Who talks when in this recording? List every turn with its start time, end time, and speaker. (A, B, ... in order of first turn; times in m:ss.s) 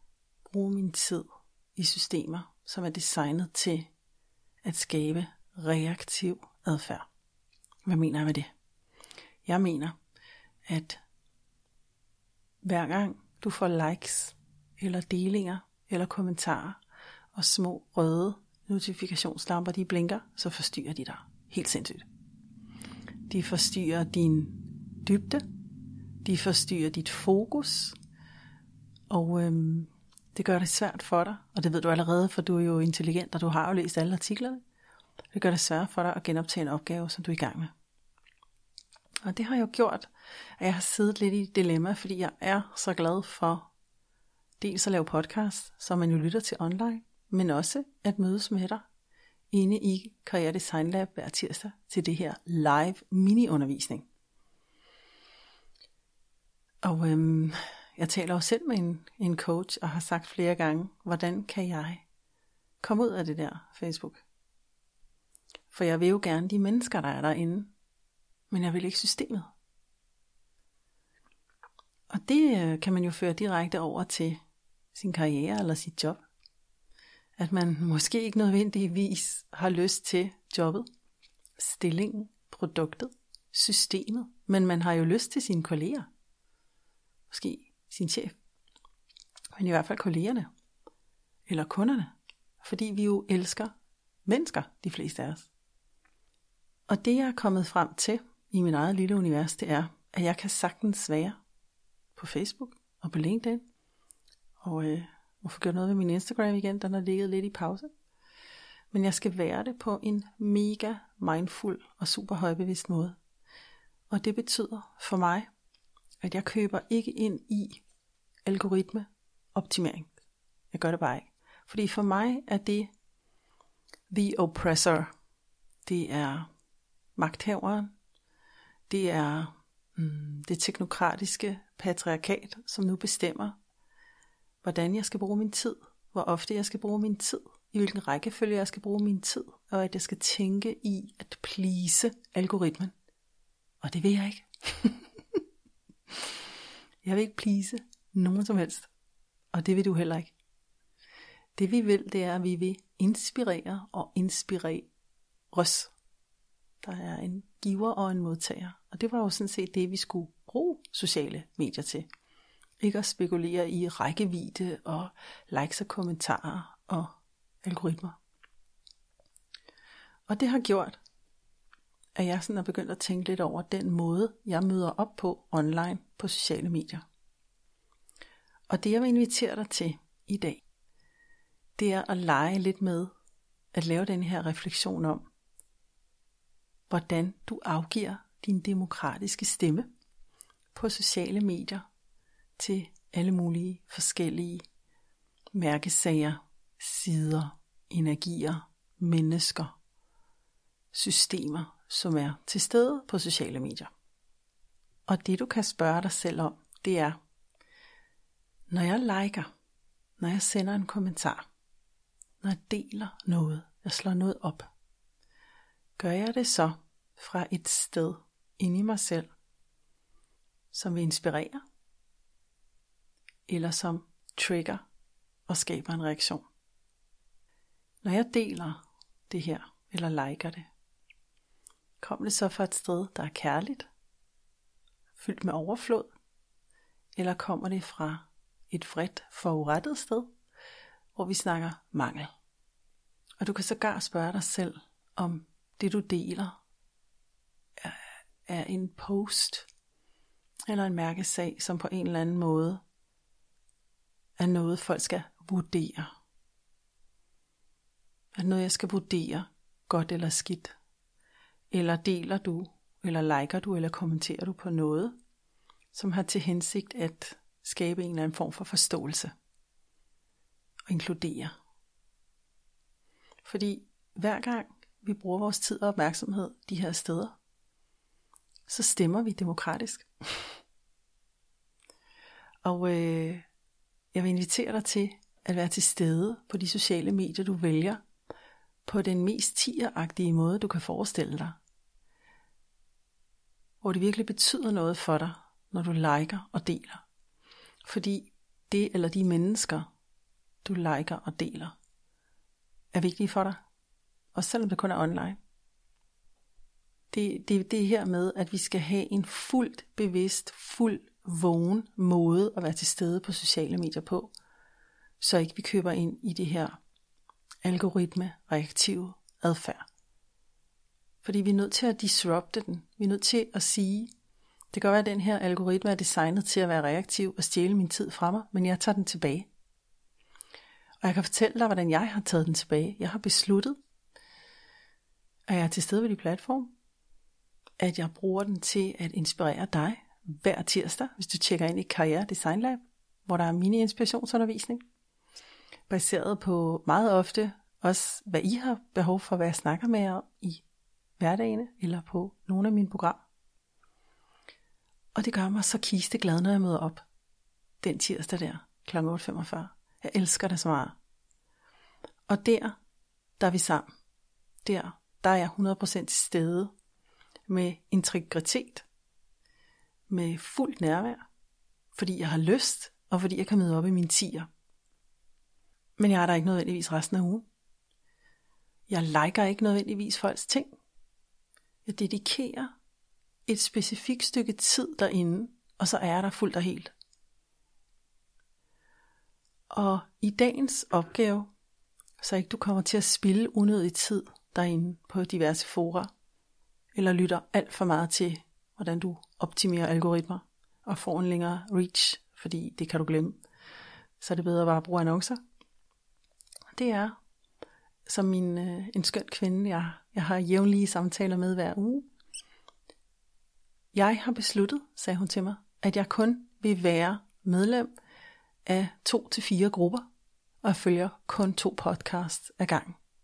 0:00.5-0:03.9 A
0:04.6-0:07.1 A
0:07.8-0:08.5 A
0:09.4-0:10.0 A
0:10.7-0:11.0 A
0:12.6-0:16.8 A
0:17.3-0:22.0 A
0:23.3-0:25.4 A
0:26.2-0:28.0 A
0:29.1-0:34.6 A
0:35.3-0:37.7 A
0:39.2-0:43.7 A
0:44.6-0:48.8 A
0:49.5-0:54.1 A
0:56.8-1:02.0 A
1:02.8-1:04.2 A
1:05.7-1:07.7 A
1:08.5-1:09.5 A
1:12.1-1:14.4 A
1:14.9-1:16.2 A
1:17.4-1:20.8 A
1:21.6-1:26.1 A
1:27.3-1:28.3 A
1:29.6-1:30.5 A
1:31.5-1:33.7 A
1:34.2-1:35.5 A
1:36.9-1:41.4 A
1:42.1-1:43.6 A
1:44.6-1:47.9 A
1:48.9-1:53.2 A
1:54.1-1:55.5 A
1:56.2-1:57.8 A
1:58.4-2:00.1 A
2:00.7-2:02.9 A
2:04.1-2:05.1 A
2:05.8-2:06.5 A
2:07.2-2:07.9 A
2:08.9-2:13.6 A
2:14.6-2:22.9 A
2:23.8-2:25.1 A
2:27.0-2:28.9 A
2:29.5-2:30.3 A
2:31.6-2:34.9 A
2:35.5-2:35.9 A
2:36.8-2:42.1 A
2:42.8-2:48.2 A
2:50.3-2:51.0 A
2:52.2-2:57.0 A
2:58.7-3:00.6 A
3:01.8-3:03.1 A
3:03.7-3:05.2 A
3:06.9-3:09.9 A
3:10.7-3:11.8 A
3:12.6-3:14.6 A
3:15.5-3:19.7 A
3:20.9-3:23.9 A
3:25.1-3:27.2 A
3:28.7-3:29.5 A
3:30.2-3:31.4 A
3:32.4-3:34.7 A
3:36.0-3:39.3 A
3:40.7-3:41.6 A
3:43.5-3:44.8 A
3:45.5-3:46.4 A
3:48.0-3:50.6 A
3:52.0-3:53.9 A
3:55.2-3:56.1 A
3:57.1-4:00.3 A
4:01.1-4:02.3 A
4:03.4-4:06.6 A
4:07.8-4:09.7 A
4:10.7-4:12.8 A
4:14.4-4:16.1 A
4:18.3-4:20.7 A
4:21.7-4:25.2 A
4:25.9-4:29.3 A
4:30.9-4:31.5 A
4:33.4-4:37.4 A
4:38.7-4:40.5 A
4:42.6-4:43.4 A
4:44.1-4:48.0 A
4:48.8-4:51.6 A
4:53.8-4:57.0 A
4:57.8-4:59.9 A
5:00.6-5:01.8 A
5:02.9-5:03.6 A
5:04.3-5:05.4 A
5:07.1-5:14.3 A
5:15.2-5:16.8 A
5:17.6-5:19.8 A
5:21.2-5:24.1 A
5:24.7-5:29.5 A
5:31.0-5:33.8 A
5:35.5-5:36.7 A
5:37.8-5:44.8 A
5:45.9-5:50.6 A
5:51.2-5:53.2 A
5:55.1-5:57.0 A
5:57.8-6:01.0 A
6:02.3-6:02.8 A
6:03.4-6:03.8 A
6:04.6-6:06.7 A
6:07.5-6:08.8 A
6:10.1-6:11.2 A
6:11.9-6:14.5 A
6:16.0-6:17.4 A
6:18.9-6:20.7 A
6:21.8-6:22.7 A
6:23.5-6:26.9 A
6:29.7-6:31.5 A
6:32.2-6:36.1 A
6:36.9-6:43.4 A
6:44.2-6:45.4 A
6:46.7-6:47.2 A
6:48.0-6:52.1 A
6:53.9-6:57.9 A
6:58.6-7:00.0 A
7:00.6-7:03.0 A